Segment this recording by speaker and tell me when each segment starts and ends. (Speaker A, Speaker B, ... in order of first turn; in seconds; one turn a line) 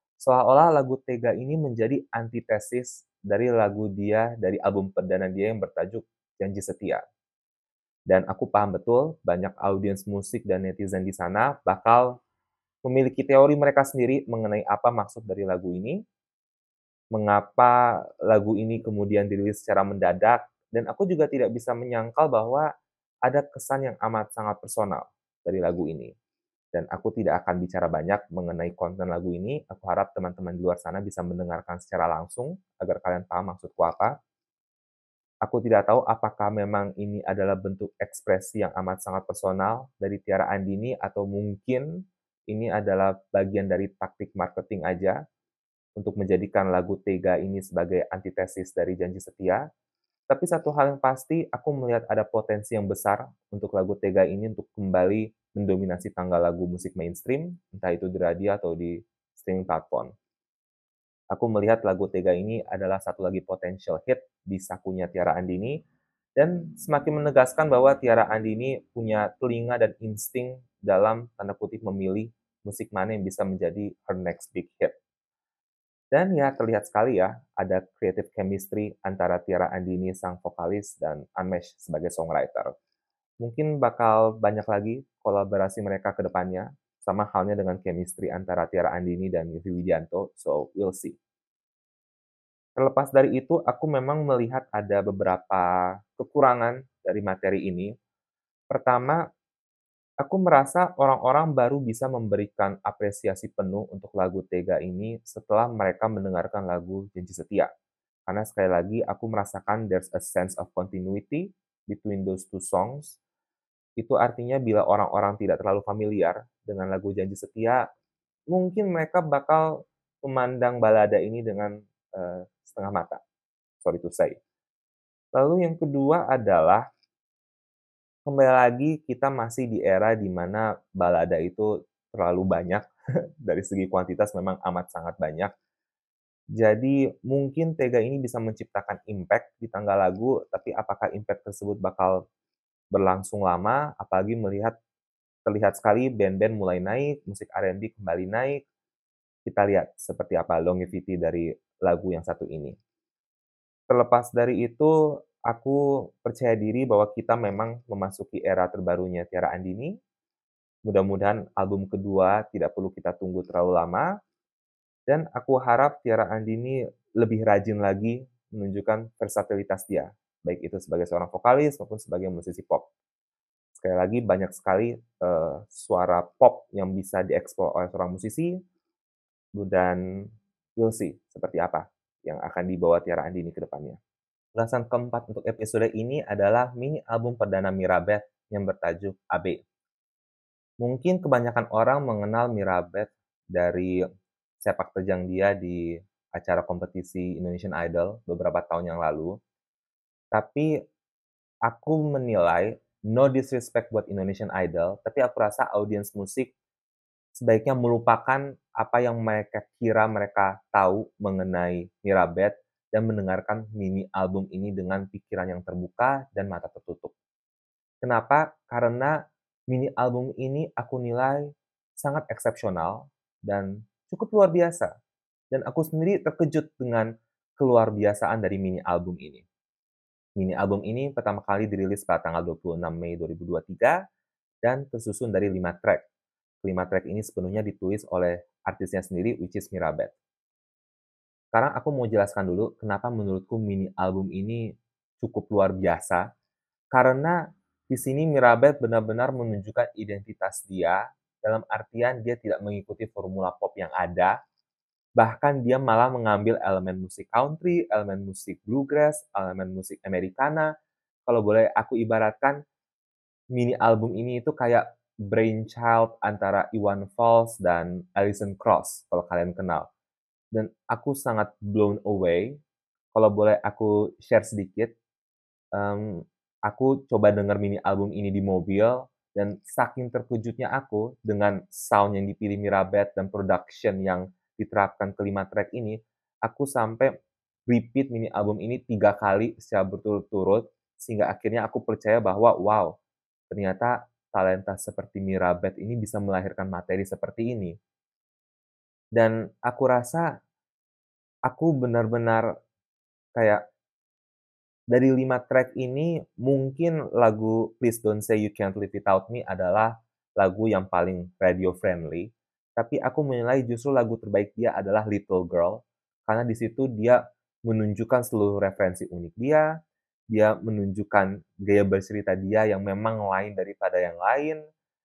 Speaker A: 0.2-7.0
Speaker A: 8.1-12.2
Speaker A: 12.8-16.0
Speaker A: 17.1-22.7
Speaker A: 23.3-26.1
Speaker A: 26.7-34.1
Speaker A: 35.5-41.9
Speaker A: 42.5-45.2
Speaker A: 46.0-49.6
Speaker A: 50.3-60.1
Speaker A: 61.3-65.8
Speaker A: 66.4-74.9
Speaker A: 76.1-82.7
Speaker A: 83.4-91.2
Speaker A: 92.8-97.9
Speaker A: 98.7-99.2
Speaker A: 100.2-107.7
Speaker A: 108.3-113.2
Speaker A: 114.0-117.8
Speaker A: 118.5-123.2
Speaker A: 123.8-124.4
Speaker A: 125.3-126.8
Speaker A: 128.3-132.8
Speaker A: 133.4-135.5
Speaker A: 136.6-142.2
Speaker A: 142.9-144.7
Speaker A: 145.4-148.6
Speaker A: 149.4-152.8
Speaker A: 153.9-154.9
Speaker A: 155.5-159.9
Speaker A: 160.9-164.1
Speaker A: 165.1-172.9
Speaker A: 173.8-178.5
Speaker A: 179.6-180.0
Speaker A: 180.8-184.0
Speaker A: 184.6-189.6
Speaker A: 190.8-193.9
Speaker A: 194.6-199.3
Speaker A: 200.3-200.7
Speaker A: 201.7-206.5
Speaker A: 207.4-217.1
Speaker A: 218.0-219.2
Speaker A: 219.7-224.9
Speaker A: 225.5-229.4
Speaker A: 230.4-234.0
Speaker A: 234.6-236.0
Speaker A: 236.6-240.1
Speaker A: 241.5-246.2
Speaker A: 246.9-247.4
Speaker A: 247.9-254.3
Speaker A: 255.2-260.7
Speaker A: 261.3-262.6
Speaker A: 263.5-269.9
Speaker A: 270.5-272.6
Speaker A: 273.1-274.9
Speaker A: 275.7-287.1
Speaker A: 287.7-292.9
Speaker A: 293.5-297.8
Speaker A: 299.1-300.3
Speaker A: 301.5-302.4
Speaker A: 303.4-303.6
Speaker A: 304.9-319.6
Speaker A: 320.3-324.6